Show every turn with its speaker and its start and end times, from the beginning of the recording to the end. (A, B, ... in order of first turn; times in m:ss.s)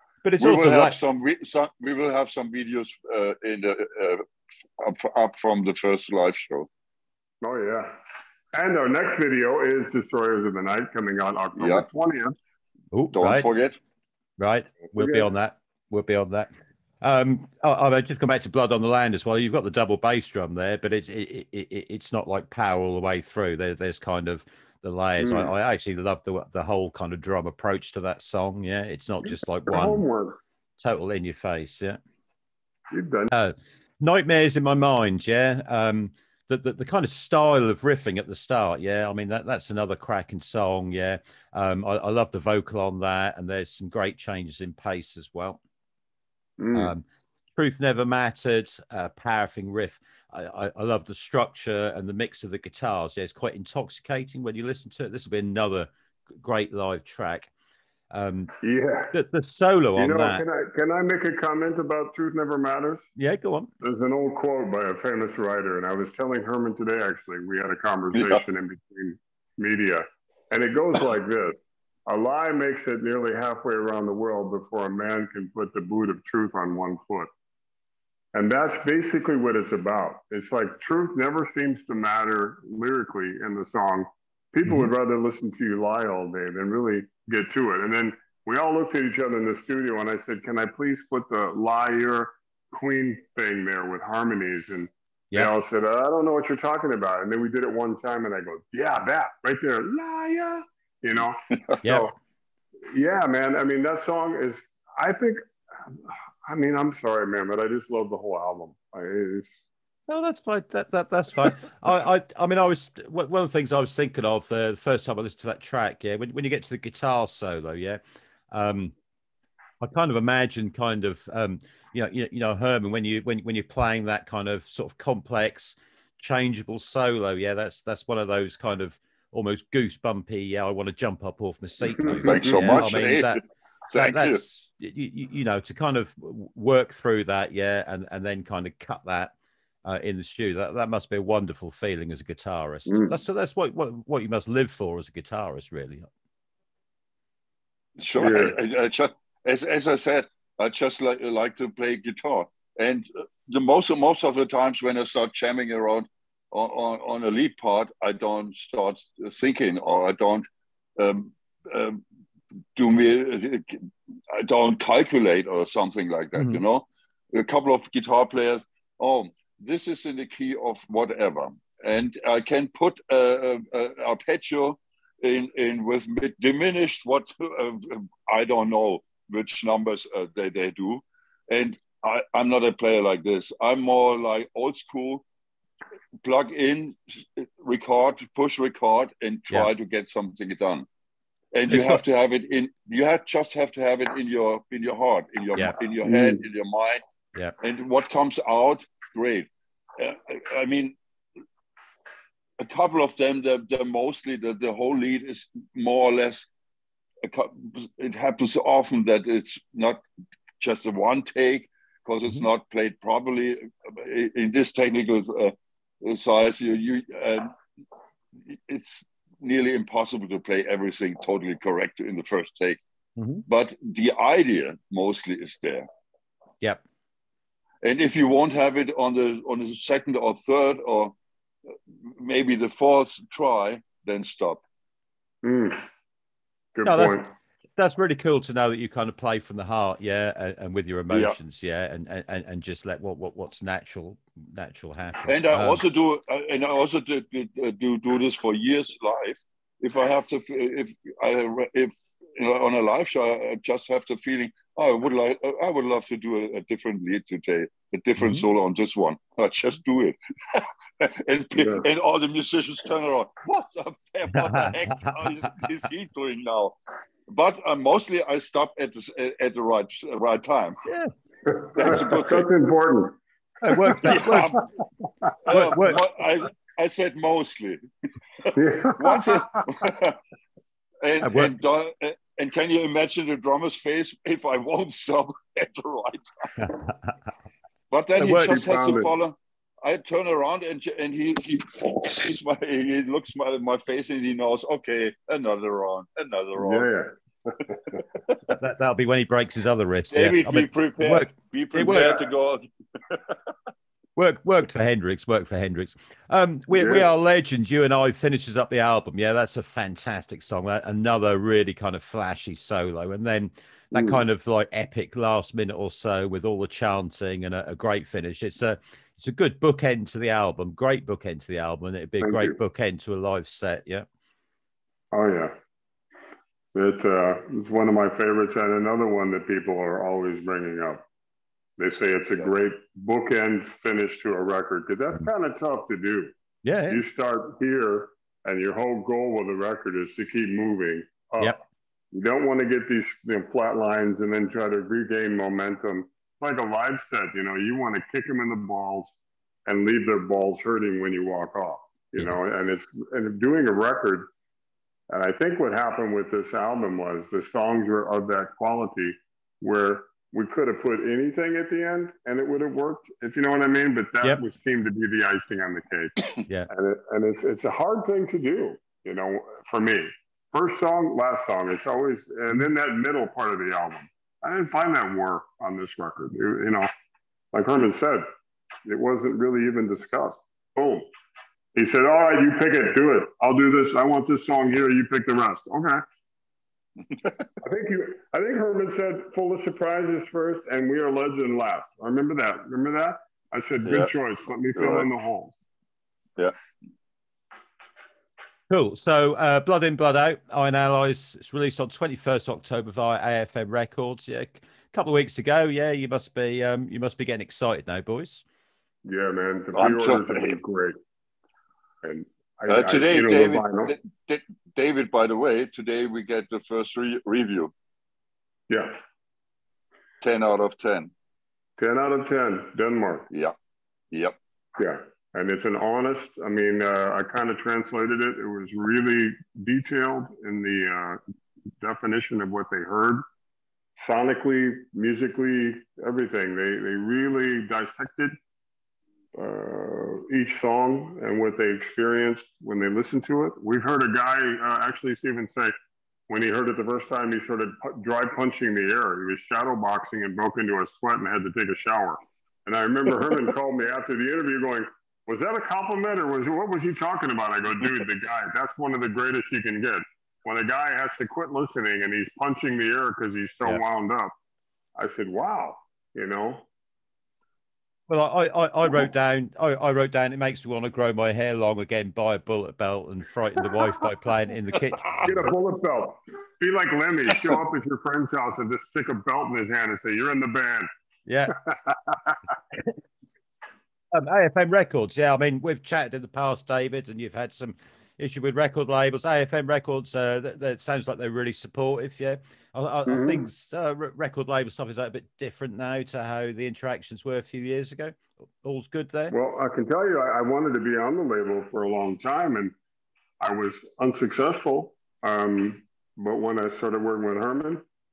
0:00.2-0:01.0 A
0:00.4-0:04.2 B
0:04.8-0:06.7 B
0:07.4-0:08.0 C
0:08.5-0:12.4 C
0:11.6-0:11.9 B
0:12.9-0:13.5 A
0:13.1-0:13.8 B
0:14.4-0:16.5 A
0:15.0-0:15.3 C
0:17.0-0:30.0 A
0:25.2-0:25.5 C
0:29.7-0:30.4 C
0:30.8-0:32.0 A
0:32.9-0:33.3 C
0:33.3-0:45.6 A
0:46.6-0:46.9 C
0:46.7-0:55.9 A
0:56.4-0:57.5 A
0:58.1-0:58.6 A
0:58.6-0:59.2 C
0:59.1-1:00.4 A
1:00.0-1:03.0 C
1:03.2-1:03.7 A
1:03.8-1:17.3 C
1:08.1-1:08.4 B
1:18.3-1:42.1 C
1:42.9-1:49.5 C
1:50.1-1:58.0 A
1:58.5-1:58.9 A
1:59.8-2:13.4 A
2:12.0-2:12.8 C
2:12.2-2:14.4 B
2:14.0-2:19.3 A
2:19.8-2:26.1 A
2:22.9-2:23.2 C
2:28.0-2:42.0 B
2:28.2-2:28.6 C
2:42.8-3:05.2 B
3:06.2-3:10.9 B
3:11.5-3:17.0 B
3:11.7-3:12.0 A
3:16.0-3:16.4 C
3:17.6-3:21.0 B
3:22.6-3:26.5 B
3:27.2-3:30.0 B
3:30.6-3:37.6 B
3:38.5-3:42.8 B
3:43.2-3:43.4 A
3:43.5-3:45.9 B
3:47.8-3:51.2 B
3:51.7-3:54.6 B
3:55.4-3:55.9 C
3:56.8-3:57.3 C
3:56.8-3:57.2 A
3:57.8-4:05.8 A
4:01.1-4:01.4 B
4:05.3-4:30.8 B
4:18.2-4:18.5 A
4:21.6-4:21.9 C
4:24.3-4:25.3 A
4:30.9-4:31.1 A
4:31.5-4:33.2 C
4:31.6-4:32.5 B
4:33.6-4:34.6 A
4:33.7-4:34.6 C
4:34.0-4:34.6 B
4:35.4-4:37.8 B
4:35.5-4:36.0 A
4:38.4-4:40.2 B
4:38.5-4:39.9 C
4:41.0-4:46.7 B
4:41.2-4:41.5 A
4:47.9-4:56.9 B
4:48.2-4:49.1 C
4:48.2-4:48.5 A
4:56.6-4:58.0 C
4:58.3-4:58.5 B
4:58.6-5:02.2 A
5:00.1-5:03.5 B
5:04.2-5:24.1 A
5:06.7-5:07.1 C
5:13.9-5:14.2 C
5:22.2-5:22.6 C
5:25.1-5:25.5 C
5:26.8-5:31.0 C
5:31.8-5:36.3 C
5:36.6-5:37.0 A
5:36.9-5:41.6 C
5:42.1-5:54.3 C
5:55.1-6:06.2 C
6:06.7-6:16.9 C
6:17.5-6:18.3 C
6:18.8-6:21.1 C
6:21.8-6:26.0 C
6:27.1-6:27.4 B
6:27.6-6:35.6 C
6:33.8-6:34.1 B
6:34.8-6:35.1 B
6:38.7-6:48.4 A
6:49.0-6:51.0 C
6:49.7-6:50.6 B
6:52.0-6:53.9 C
6:52.7-6:57.7 B
6:58.7-6:59.0 C
7:00.2-7:01.1 B
7:01.8-7:03.3 C
7:03.3-7:03.6 B
7:04.1-7:04.4 B
7:04.8-7:11.2 C
7:11.8-7:13.2 C
7:14.0-7:18.4 C
7:19.4-7:25.7 C
7:26.3-7:44.3 C
7:45.0-7:46.7 C
7:48.1-7:55.5 A
7:55.2-8:00.9 C
8:01.3-8:01.6 A
8:01.5-8:02.4 C
8:04.1-8:19.3 A
8:13.1-8:13.5 C
8:19.3-8:22.7 C
8:23.4-8:27.8 C